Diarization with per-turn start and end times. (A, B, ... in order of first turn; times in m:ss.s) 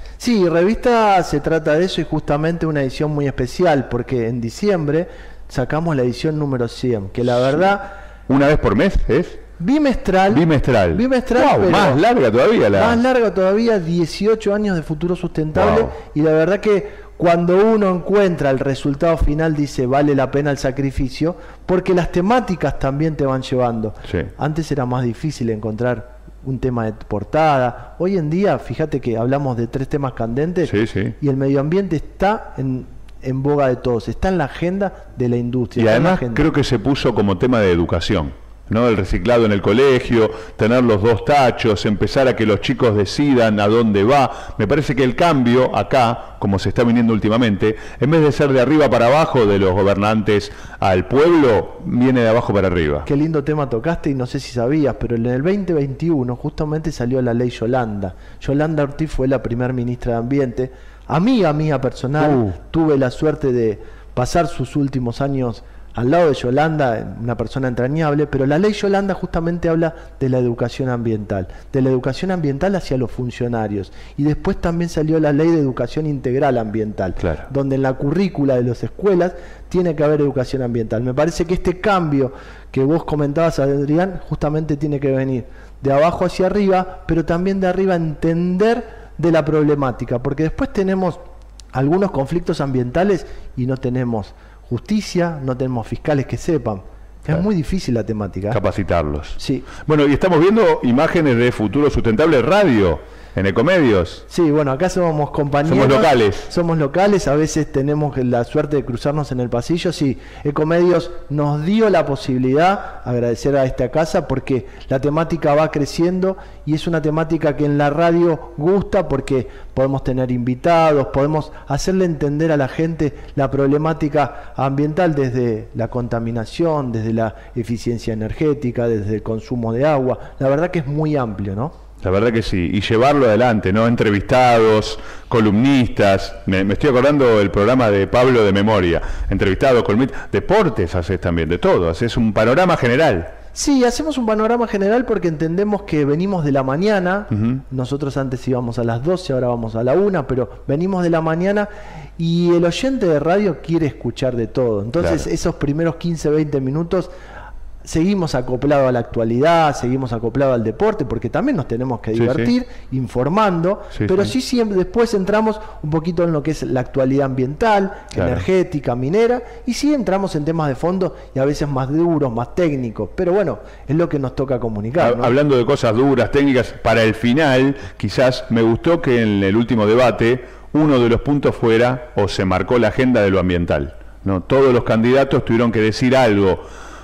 0:00.2-0:07.9 A
0:08.3-0:09.4 B
0:09.6-0:12.0 A
0:10.3-0:13.0 B
0:12.7-0:36.5 A
0:15.5-0:15.9 B
0:30.7-0:31.2 B
0:35.8-0:53.1 B
0:53.0-1:31.2 A
1:02.2-1:02.6 B
1:17.2-1:17.5 B
1:31.7-1:38.6 A
1:38.5-1:44.2 B
1:39.4-1:39.7 A
1:44.3-2:11.7 A
1:45.6-1:46.5 B
2:12.0-2:23.3 B
2:23.5-2:37.1 A
2:27.3-2:27.6 B
2:35.0-2:35.3 B
2:37.8-2:55.4 A
2:42.1-2:42.5 B
2:43.9-2:44.3 B
2:48.1-2:48.4 B
2:55.0-3:06.7 B